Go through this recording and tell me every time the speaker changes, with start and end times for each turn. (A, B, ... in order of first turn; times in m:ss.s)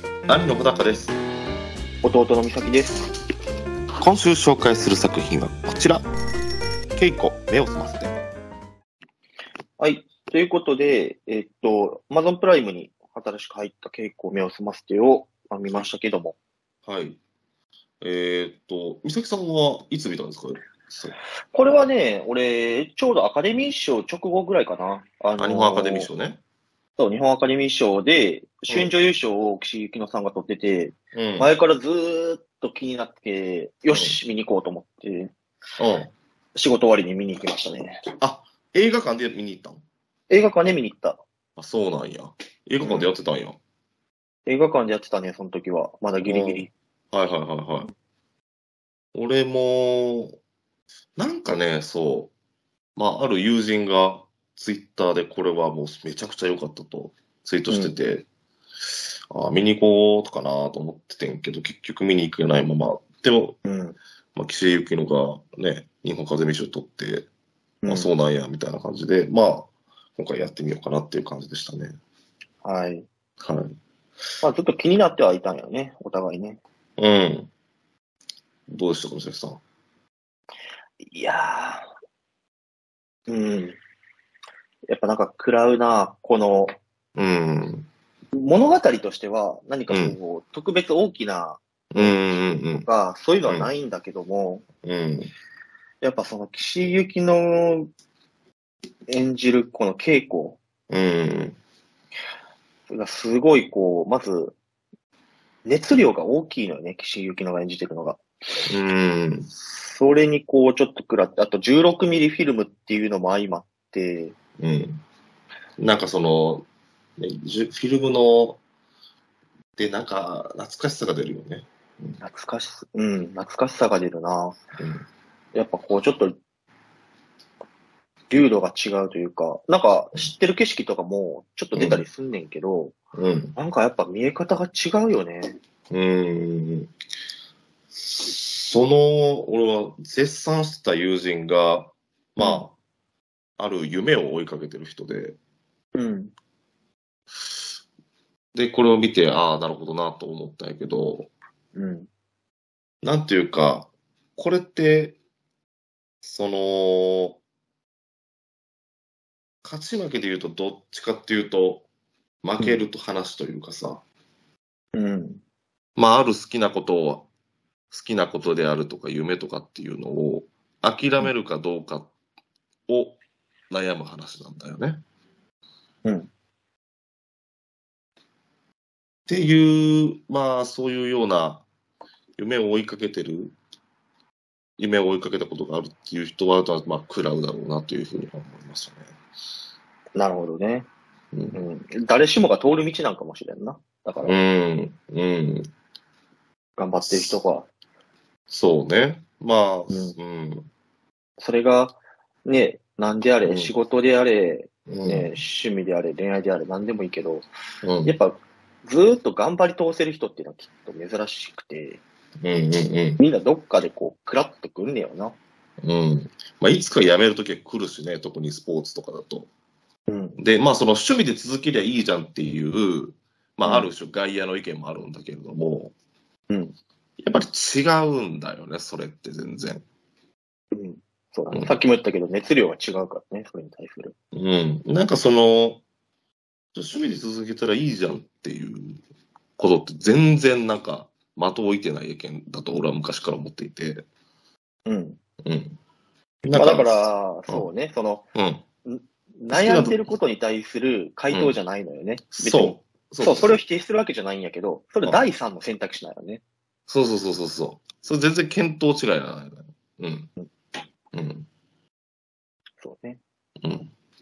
0:00.3-0:01.2 A
0:02.0-0:03.1 B
0:04.0-0:06.1 A
0:06.9-0:08.2 A
0:09.8-0:16.4 B
0:16.9-0:17.2 A
0:18.0-0:21.2 A
0:21.5-0:26.1 B
0:25.4-0:26.4 A
0:27.0-0:35.3 B
0:31.1-0:31.5 A
0:33.9-0:34.2 A
0:35.8-0:36.1 A
0:36.6-0:38.0 B
0:38.2-0:39.8 A
0:40.3-0:41.2 B
0:41.6-0:43.6 A
0:42.8-0:43.1 B
0:44.5-0:46.7 B
0:46.2-0:47.9 A
0:49.2-0:50.4 A
0:51.2-0:52.3 A
0:53.0-0:58.3 A
0:57.7-0:58.0 B
0:58.9-1:03.6 A
1:03.6-1:04.0 B
1:04.4-1:07.3 A
1:07.8-1:08.1 B
1:07.9-1:12.0 A
1:12.6-1:13.1 B
1:13.4-1:13.8 A
1:14.4-1:16.6 B
1:17.0-1:17.5 A
1:18.7-1:19.6 A
1:21.0-1:21.9 B
1:23.3-1:23.8 B
1:24.9-1:26.7 B
1:27.2-1:27.9 A
1:28.3-1:34.6 B
1:29.9-1:30.2 A
1:31.9-1:32.9 A
1:33.4-1:33.7 A
1:34.8-1:35.3 A
1:36.0-1:37.9 B
1:39.1-1:40.6 B
1:40.9-1:41.6 A
1:42.9-1:44.6 B
1:45.6-1:48.7 B
1:48.7-1:49.5 A
1:49.5-1:54.4 B
1:54.6-1:55.0 A
1:55.8-1:58.6 A
1:59.8-2:02.2 A
2:02.2-2:04.6 B
2:04.8-2:05.0 A
2:05.5-2:06.4 B
2:08.3-2:13.0 B
2:11.7-2:12.0 A
2:13.1-2:13.6 A
2:13.6-2:15.6 B
2:15.9-2:16.9 A
2:17.9-2:22.7 A
2:22.4-2:22.7 B
2:23.6-2:25.4 A
2:25.9-2:26.3 B
2:28.6-2:31.3 A
2:31.7-2:32.1 B
2:33.0-2:35.2 A
2:36.2-2:37.4 A
2:39.6-2:41.9 A
2:42.4-2:44.0 A
2:44.9-2:45.4 B
2:46.0-2:47.3 A
2:47.9-2:52.1 A
2:52.9-2:53.2 A
2:53.7-2:55.0 A
2:56.0-2:56.3 B
2:59.3-3:01.6 A
3:02.4-3:03.6 A
3:04.8-3:09.1 A
3:10.2-3:10.9 B
3:11.3-3:11.6 A
3:11.5-3:14.4 B
3:14.2-3:15.7 A
3:16.8-3:17.7 B
3:17.0-3:17.4 A
3:18.5-3:20.7 A
3:19.9-3:20.2 B
3:21.4-3:27.5 B
3:23.4-3:23.7 A
3:24.9-3:25.4 A
3:27.8-3:28.2 A
3:28.0-3:32.0 B
3:32.4-3:33.2 A
3:33.2-3:35.4 B
3:35.8-3:39.5 A
3:40.1-3:40.4 B
3:40.4-3:45.9 A
3:43.6-3:43.9 B
3:46.5-3:46.8 B
3:47.2-3:49.8 A
3:50.7-3:54.2 B
3:51.5-3:51.8 A
3:54.3-3:55.8 A
3:56.7-3:59.0 A
3:59.6-4:04.1 A
4:04.9-4:05.2 B
4:05.4-4:05.8 A
4:06.4-4:07.7 A
4:06.5-4:08.3 B
4:08.4-4:08.6 A
4:08.8-4:16.4 B
4:09.5-4:10.1 A
4:11.3-4:11.6 A
4:12.4-4:13.6 A
4:16.9-4:20.3 A
4:21.1-4:21.5 A
4:22.8-4:23.2 B
4:23.6-4:23.9 A